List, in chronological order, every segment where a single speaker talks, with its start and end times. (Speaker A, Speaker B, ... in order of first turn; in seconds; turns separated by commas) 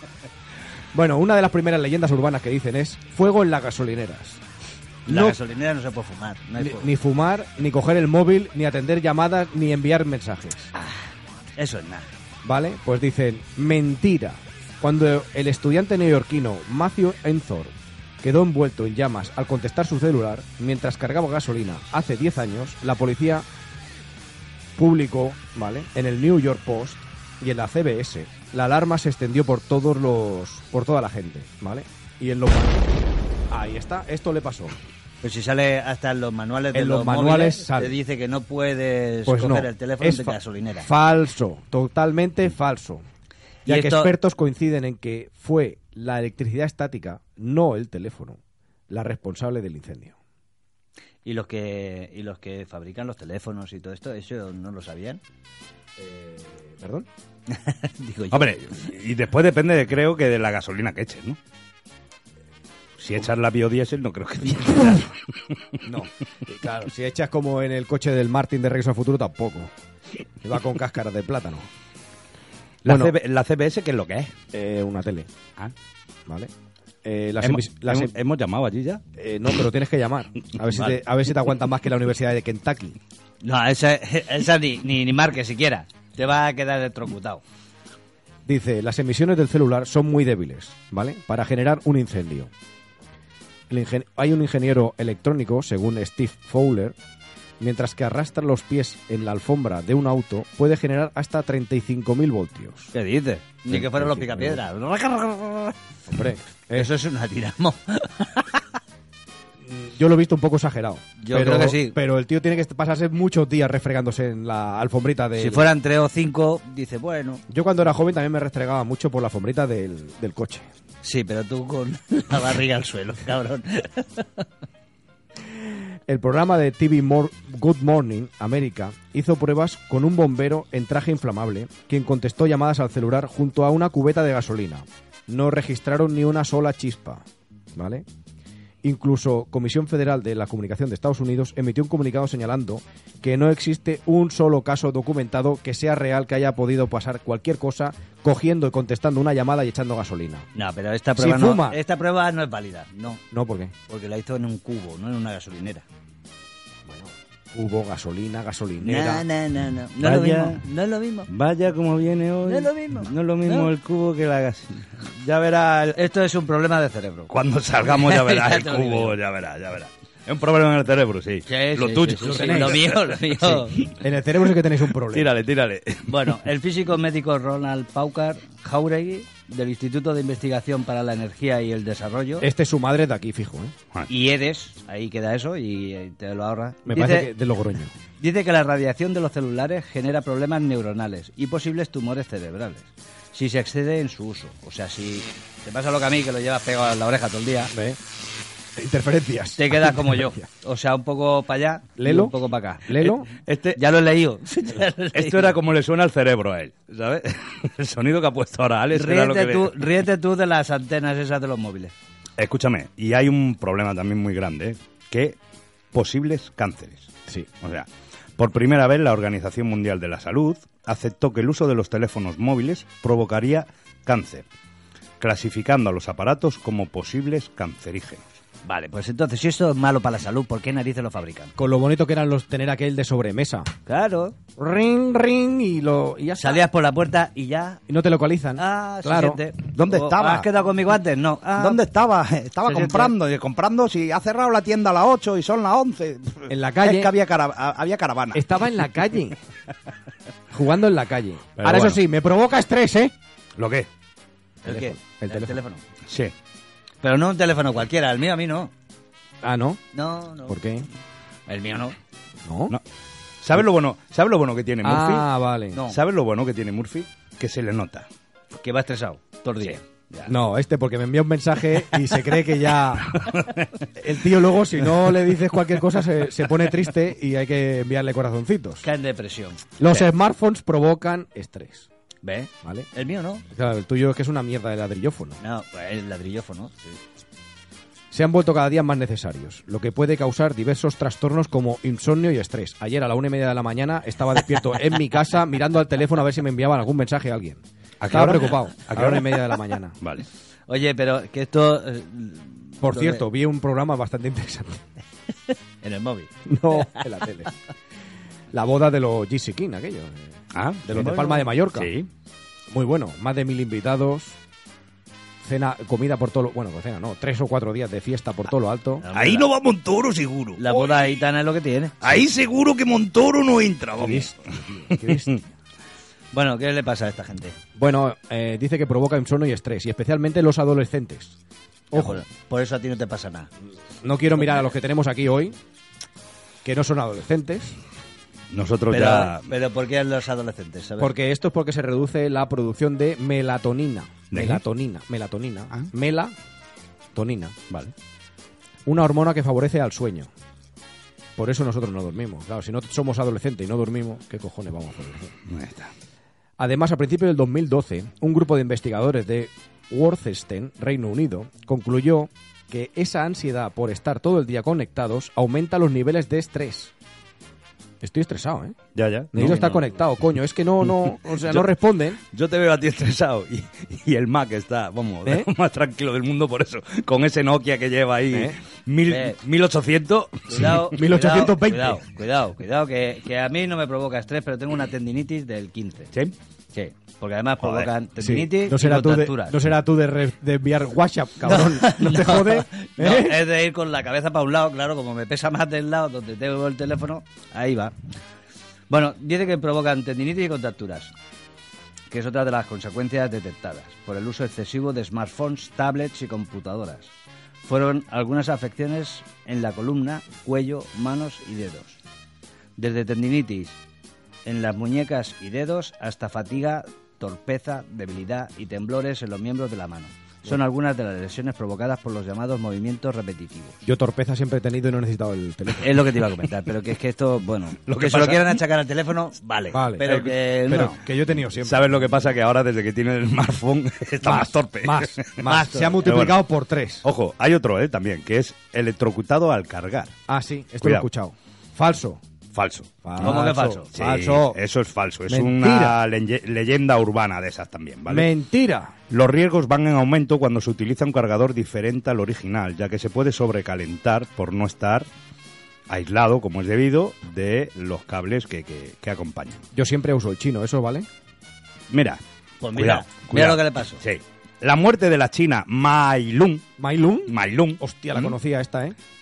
Speaker A: 0.9-4.4, Speaker A: 5.0-5.4, Speaker B: 5.1-6.9, Speaker A: 6.6-10.7, Speaker B: 10.7-11.0, Speaker B: 11.6-12.1, Speaker A: 12.4-23.4, Speaker A: 24.8-34.8, Speaker B: 35.2-40.9, Speaker A: 36.7-38.0, Speaker A: 39.2-43.0, Speaker B: 43.6-44.1, Speaker A: 43.6-48.4, Speaker A: 48.9-50.1, Speaker B: 51.2-55.2, Speaker A: 56.0-57.1, Speaker B: 57.5-58.9, Speaker C: 58.3-61.4, Speaker C: 63.0-65.1, Speaker A: 65.8-69.7, Speaker A: 70.4-71.7, Speaker C: 72.8-74.3, Speaker A: 72.8-73.1, Speaker A: 74.5-75.3, Speaker A: 77.0-78.1, Speaker C: 77.4-79.0, Speaker A: 79.2-83.0, Speaker B: 83.4-87.4, Speaker A: 88.5-92.5, Speaker A: 93.7-97.0, Speaker A: 97.6-102.9, Speaker B: 102.9-105.8, Speaker A: 103.7-104.6, Speaker A: 106.1-106.9, Speaker B: 106.7-108.6, Speaker A: 109.6-115.7, Speaker B: 111.2-112.0, Speaker B: 115.4-117.4, Speaker A: 117.5-120.7, Speaker B: 121.0-124.4, Speaker A: 126.1-137.2, Speaker A: 137.7-138.0, Speaker A: 138.8-150.5, Speaker B: 150.5-153.2, Speaker A: 151.2-151.8, Speaker A: 153.3-153.7, Speaker B: 153.9-155.8, Speaker A: 156.9-159.2, Speaker B: 158.8-161.3, Speaker C: 160.0-160.6, Speaker C: 161.3-166.0, Speaker B: 162.4-163.7, Speaker B: 165.9-167.3, Speaker C: 167.3-173.6, Speaker B: 167.9-169.2, Speaker B: 171.5-173.9, Speaker A: 172.2-173.0, Speaker A: 173.9-175.3, Speaker C: 175.0-176.3, Speaker B: 176.1-182.4, Speaker A: 182.4-183.7, Speaker B: 184.1-187.3, Speaker A: 186.8-187.9, Speaker B: 188.2-197.7, Speaker A: 197.7-198.0, Speaker A: 198.8-200.4, Speaker B: 199.6-203.1, Speaker A: 202.0-202.3, Speaker A: 202.8-203.3, Speaker C: 203.0-203.8, Speaker B: 203.8-205.6, Speaker C: 205.1-209.8, Speaker B: 208.9-211.9, Speaker C: 212.4-215.3, Speaker C: 215.9-217.1, Speaker C: 217.6-224.4, Speaker C: 225.2-228.2, Speaker B: 228.6-231.5, Speaker A: 231.6-233.7, Speaker B: 233.9-234.3, Speaker A: 234.6-236.6, Speaker B: 236.4-237.8, Speaker A: 237.9-239.4, Speaker B: 238.6-241.8, Speaker C: 239.7-240.5, Speaker C: 241.6-248.4, Speaker B: 242.6-243.1, Speaker A: 246.5-247.1, Speaker A: 248.3-249.4, Speaker A: 250.5-253.1, Speaker C: 251.6-252.0, Speaker C: 253.6-253.9, Speaker B: 254.6-255.8, Speaker A: 254.6-255.6, Speaker C: 256.1-256.3, Speaker B: 257.0-258.7, Speaker A: 259.4-259.8, Speaker B: 259.9-260.6, Speaker A: 260.5-260.9, Speaker B: 261.5-261.9, Speaker A: 262.4-262.8, Speaker C: 263.4-265.3, Speaker A: 264.8-265.8, Speaker C: 265.9-268.1, Speaker B: 268.6-269.8, Speaker C: 269.6-270.3, Speaker A: 270.3-273.2, Speaker C: 273.2-273.5, Speaker A: 273.9-278.8, Speaker B: 278.8-279.7, Speaker A: 279.8-281.9, Speaker B: 282.2-283.4, Speaker A: 282.6-282.9, Speaker A: 283.5-285.4, Speaker B: 285.4-287.0, Speaker A: 288.1-300.0, Speaker C: 298.0-299.5, Speaker C: 300.0-300.2, Speaker B: 300.7-303.2, Speaker A: 302.8-304.8, Speaker B: 305.8-307.0, Speaker A: 306.4-307.5, Speaker A: 308.5-311.9, Speaker C: 310.5-312.1, Speaker B: 310.9-311.4, Speaker A: 312.7-314.4, Speaker A: 315.4-319.0, Speaker B: 319.0-319.5, Speaker C: 319.1-320.9, Speaker B: 320.6-322.0, Speaker C: 322.0-324.3, Speaker A: 324.0-325.3, Speaker C: 324.9-325.4, Speaker B: 326.3-327.6, Speaker A: 327.8-331.3, Speaker A: 331.9-332.2, Speaker B: 331.9-333.5, Speaker A: 334.0-335.6, Speaker A: 336.6-337.8, Speaker C: 338.5-339.5, Speaker B: 338.9-341.1, Speaker A: 341.0-346.3, Speaker C: 344.3-344.6, Speaker A: 347.1-347.5, Speaker A: 348.9-350.3, Speaker A: 351.4-355.3, Speaker C: 355.5-355.9, Speaker A: 356.6-366.9, Speaker A: 368.0-368.8, Speaker C: 368.9-369.8, Speaker A: 369.3-372.2, Speaker C: 370.8-371.7, Speaker C: 372.3-380.7, Speaker B: 379.1-379.4, Speaker A: 380.5-382.0, Speaker B: 380.5-386.1, Speaker B: 386.7-389.6, Speaker C: 387.6-387.9, Speaker A: 388.2-393.4, Speaker B: 391.4-397.9, Speaker B: 398.9-401.1, Speaker B: 402.1-407.1, Speaker B: 407.6-412.0, Speaker B: 412.8-413.8, Speaker B: 414.4-423.8, Speaker A: 423.8-425.9, Speaker B: 425.8-431.0, Speaker C: 427.9-428.5, Speaker A: 429.7-432.1, Speaker C: 430.0-430.3, Speaker C: 431.6-435.4, Speaker A: 434.2-437.0, Speaker B: 435.4-436.0, Speaker C: 436.0-436.4, Speaker C: 437.0-440.1, Speaker A: 440.3-442.2, Speaker C: 442.5-443.4, Speaker A: 443.0-444.6, Speaker B: 443.2-443.9, Speaker C: 443.9-448.3, Speaker A: 445.3-446.0, Speaker A: 448.1-448.9, Speaker C: 449.1-455.1, Speaker C: 455.9-459.6, Speaker A: 459.7-461.1, Speaker C: 461.9-462.2, Speaker B: 462.6-464.0, Speaker C: 462.7-466.7, Speaker A: 466.8-468.9, Speaker C: 467.3-468.4